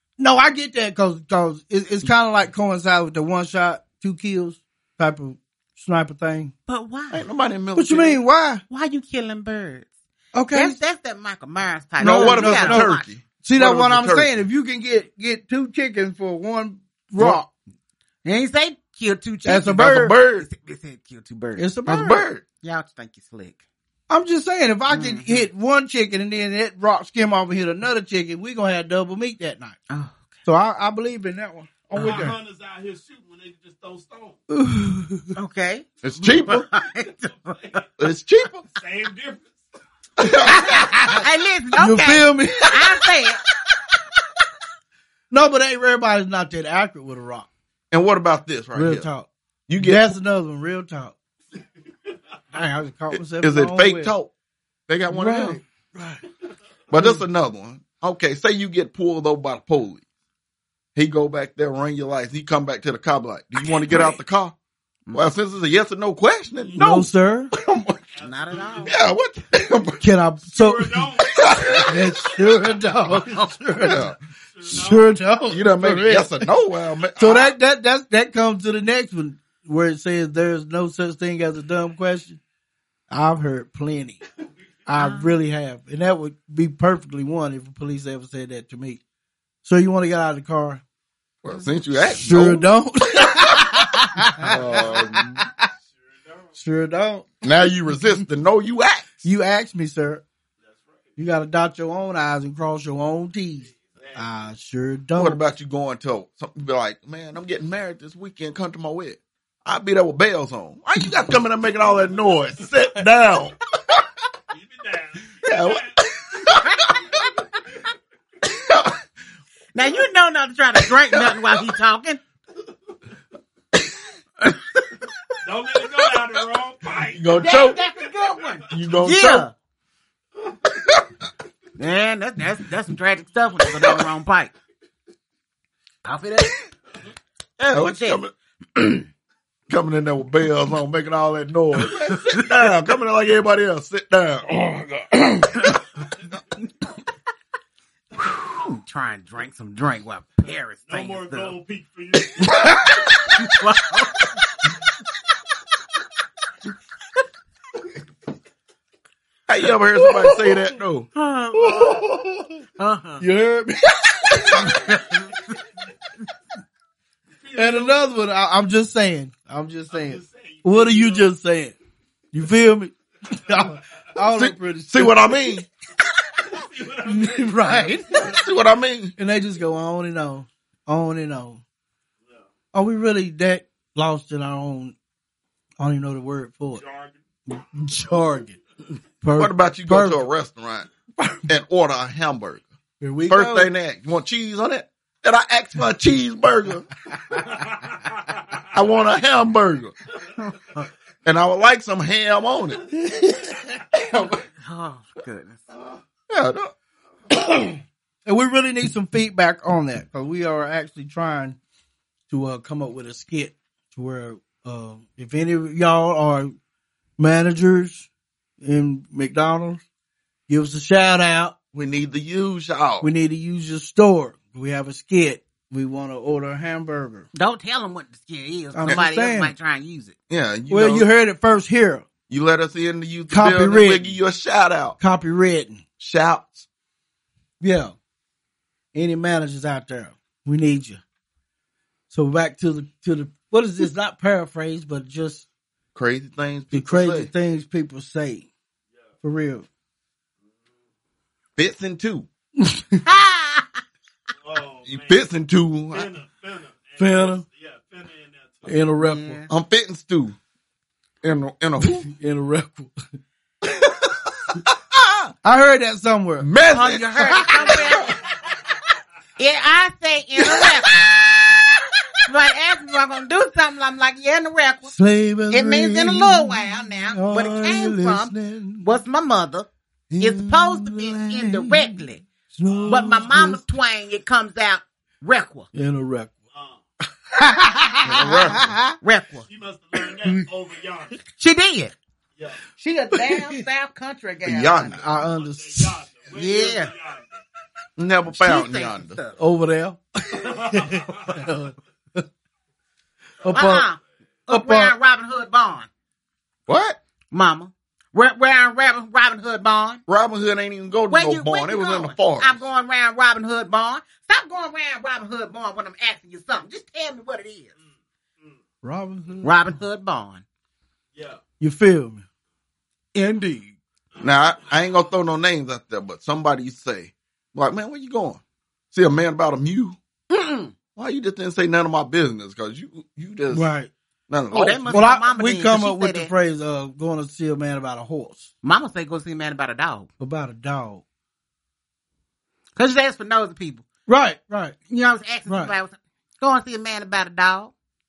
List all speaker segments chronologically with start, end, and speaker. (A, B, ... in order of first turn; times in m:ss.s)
0:00.2-0:06.5 A
0:06.7-0:07.2 B
0:07.1-0:08.2 C
0:07.8-0:08.6 A
0:08.7-0:09.9 B
0:10.3-0:10.8 A
0:10.5-0:13.0 B
0:12.0-0:17.5 A
0:12.0-0:14.4 C
0:18.2-0:21.7 B
0:19.4-0:20.2 A
0:19.7-0:20.4 C
0:21.6-0:22.2 A
0:21.8-0:22.4 C
0:22.6-0:23.6 B
0:24.1-0:29.8 A
0:24.9-0:25.5 B
0:29.9-0:30.3 B
0:30.4-0:32.4 A
0:31.9-0:34.4 D
0:31.9-0:32.2 B
0:34.5-0:35.4 A
0:35.4-0:37.8 B
0:36.0-0:36.6 C
0:37.5-0:37.8 D
0:38.0-0:38.6 C
0:38.7-0:39.6 D
0:40.2-0:40.8 C
0:40.2-0:41.2 A
0:40.6-0:43.4 B
0:41.7-0:43.0 A
0:45.3-0:47.5 A
0:47.9-0:49.1 C
0:48.7-0:49.3 A
0:49.7-0:50.1 C
0:49.8-0:51.2 A
0:52.5-0:54.1 A
0:53.1-0:54.3 C
0:54.9-0:55.6 C
0:55.1-0:56.2 A
0:56.9-1:00.0 C
1:00.9-1:04.6 C
1:05.1-1:08.0 C
1:06.8-1:07.5 A
1:08.1-1:09.0 D
1:08.2-1:08.9 B
1:08.8-1:10.0 C
1:10.0-1:14.1 A
1:10.4-1:12.2 D
1:11.3-1:12.1 C
1:13.8-1:14.2 C
1:14.5-1:15.2 D
1:14.6-1:16.5 A
1:15.5-1:17.5 C
1:17.2-1:22.4 A
1:23.1-1:24.2 A
1:24.9-1:29.0 A
1:25.0-1:25.3 B
1:29.6-1:30.8 A
1:31.4-1:32.7 C
1:32.1-1:35.5 A
1:34.5-1:35.5 C
1:36.6-1:37.3 A
1:37.4-1:39.1 C
1:39.2-1:40.2 A
1:41.2-1:45.4 A
1:43.8-1:44.3 D
1:45.2-1:53.5 C
1:54.5-1:56.1 D
1:55.4-1:56.6 C
1:56.5-1:57.6 B
1:57.0-1:57.2 D
1:58.4-1:58.9 C
1:59.7-2:02.2 B
2:01.1-2:01.5 C
2:04.4-2:05.1 B
2:05.4-2:07.6 D
2:07.1-2:07.8 C
2:07.4-2:09.5 B
2:08.7-2:09.5 C
2:11.8-2:14.5 B
2:13.8-2:14.0 C
2:16.0-2:16.5 B
2:17.6-2:18.2 B
2:17.7-2:19.0 C
2:19.7-2:25.7 C
2:22.1-2:22.4 B
2:28.2-2:31.6 B
2:30.9-2:32.8 D
2:32.6-2:34.3 B
2:39.5-2:41.1 C
2:40.2-2:40.5 A
2:41.2-2:42.0 B
2:41.5-2:42.6 A
2:42.8-2:43.2 B
2:43.2-2:44.8 A
2:44.5-2:45.6 B
2:47.4-2:48.0 D
2:47.5-2:51.8 A
2:49.9-2:51.3 D
2:52.3-2:55.5 A
2:54.3-2:55.6 C
2:56.4-2:58.5 D
2:57.0-2:58.3 A
2:58.2-2:59.1 C
2:59.2-3:01.6 A
3:02.7-3:05.0 A
3:05.8-3:06.8 A
3:06.8-3:07.2 D
3:07.5-3:08.6 A
3:09.2-3:10.2 A
3:09.4-3:10.9 C
3:11.4-3:12.6 C
3:13.0-3:13.7 A
3:13.3-3:16.9 C
3:17.4-3:18.6 D
3:18.7-3:19.9 C
3:20.5-3:20.8 B
3:21.2-3:22.8 C
3:22.9-3:23.8 A
3:24.6-3:25.6 B
3:26.3-3:26.7 C
3:28.2-3:31.6 A
3:32.3-3:36.6 A
3:37.2-3:38.1 A
3:38.6-3:39.8 A
3:40.5-3:41.5 A
3:41.7-3:43.1 C
3:43.0-3:47.3 A
3:47.3-3:50.1 B
3:48.7-3:49.5 A
3:50.3-3:51.1 C
3:50.7-3:52.0 A
3:52.3-3:55.0 C
3:53.3-3:54.1 A
3:55.0-3:55.8 A
3:56.0-3:56.7 C
3:57.6-3:57.9 A
3:58.9-4:01.0 A
4:02.1-4:05.4 A
4:05.9-4:07.3 C
4:06.7-4:08.5 A
4:09.2-4:09.7 A
4:11.6-4:12.3 C
4:12.6-4:13.0 A
4:13.0-4:13.8 B
4:14.4-4:15.3 D
4:14.9-4:16.1 C
4:15.9-4:18.7 D
4:17.0-4:17.4 A
4:18.6-4:19.4 A
4:19.0-4:19.5 B
4:19.5-4:20.4 C
4:21.2-4:22.0 C
4:21.8-4:23.0 A
4:24.5-4:25.3 C
4:25.4-4:26.5 A
4:26.4-4:28.1 C
4:26.7-4:28.2 B
4:29.4-4:31.0 B
4:30.5-4:31.7 C
4:32.2-4:34.9 B
4:34.9-4:38.9 A
4:35.5-4:38.3 B
4:38.8-4:39.7 B
4:40.1-4:43.6 A
4:40.2-4:42.2 B
4:42.7-4:43.2 D
4:42.9-4:45.7 B
4:45.7-4:46.3 A
4:46.5-4:46.8 D
4:47.3-4:49.0 A
4:48.0-4:48.4 B
4:48.0-4:48.7 C
4:49.0-4:49.4 B
4:49.4-4:51.2 D
4:51.3-4:51.9 B
4:52.4-4:52.6 D
4:52.8-4:55.0 B
4:53.1-4:53.6 A
4:54.4-4:55.0 C
4:54.9-4:56.0 A
4:55.2-4:57.4 D
4:56.3-4:56.9 B
4:58.0-4:59.2 C
4:58.3-4:59.4 B
4:59.4-5:02.2 A
5:00.3-5:01.5 D
5:03.4-5:03.9 A
5:03.5-5:05.9 B
5:04.5-5:04.9 A
5:06.7-5:07.0 C
5:07.3-5:10.0 B
5:10.1-5:12.6 C
5:11.1-5:17.7 B
5:18.8-5:19.8 A
5:19.4-5:20.4 B
5:21.6-5:22.2 A
5:23.1-5:23.7 B
5:24.2-5:24.5 D
5:24.2-5:28.4 C
5:28.9-5:30.0 C
5:30.3-5:30.7 B
5:31.0-5:33.7 C
5:33.5-5:33.9 A
5:34.3-5:35.1 C
5:34.5-5:36.3 B
5:34.9-5:38.5 A
5:38.6-5:40.1 B
5:40.2-5:41.0 A
5:42.8-5:43.8 B
5:44.1-5:44.8 A
5:44.9-5:47.7 B
5:45.5-5:45.7 A